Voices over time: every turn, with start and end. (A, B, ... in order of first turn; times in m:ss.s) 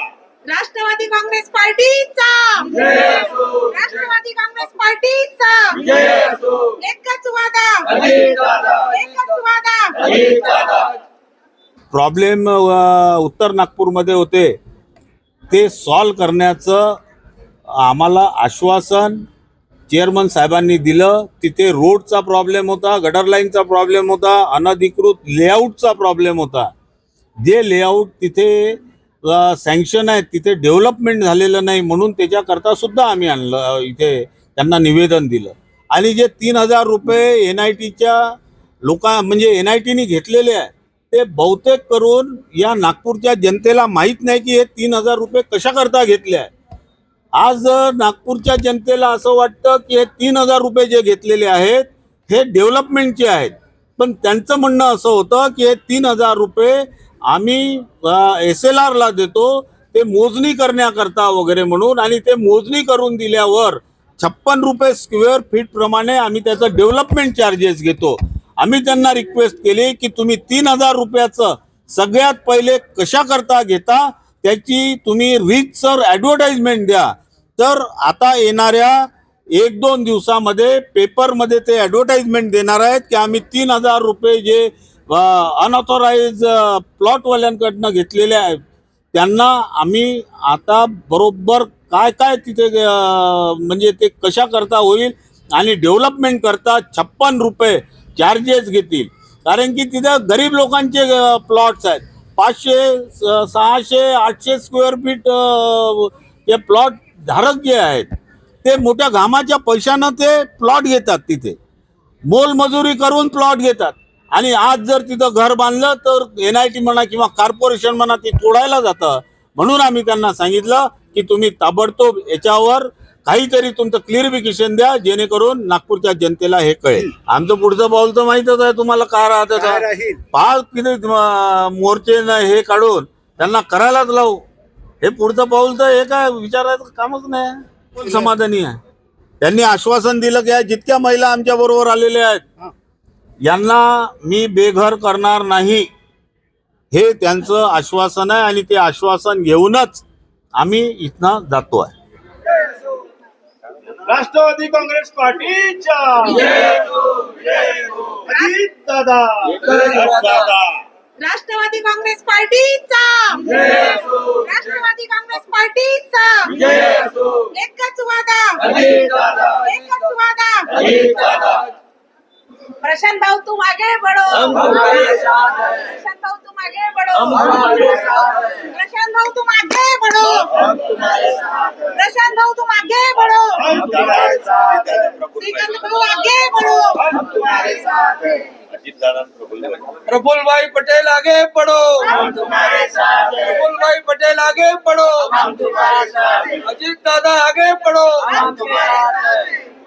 0:00.5-0:06.1 A
0:02.8-0:03.6 B
0:05.8-0:06.7 B
0:06.8-0:10.2 A
0:08.0-0:08.9 B
0:10.0-0:10.9 B
0:11.9-0:14.6 C
0:15.5-0:17.0 C
0:17.7-0:19.2 C
0:19.9-0:26.7 C
0:27.4-0:38.3 C
0:38.8-0:46.5 C
0:47.4-1:28.6 C
1:29.1-1:48.1 C
1:48.6-1:51.6 C
1:52.3-2:14.4 C
2:09.5-2:10.2 D
2:15.0-2:18.8 C
2:19.4-2:22.4 C
2:23.4-2:25.9 C
2:26.9-2:30.0 C
2:30.6-2:31.9 C
2:34.0-2:36.6 D
2:36.5-2:38.2 B
2:37.5-2:40.5 D
2:39.5-2:40.5 B
2:41.2-2:46.6 A
2:43.5-2:44.3 B
2:46.5-2:47.4 B
2:47.5-2:51.4 A
2:48.6-2:49.6 B
2:50.7-2:51.6 B
2:52.8-3:00.7 A
2:54.4-2:55.7 B
2:57.2-2:58.5 B
3:00.6-3:01.6 B
3:01.9-3:03.8 A
3:03.6-3:05.2 D
3:03.9-3:04.6 B
3:04.0-3:04.4 C
3:05.4-3:08.0 A
3:07.0-3:08.4 D
3:09.0-3:19.5 B
3:12.1-3:13.2 A
3:15.4-3:16.0 A
3:18.3-3:19.6 A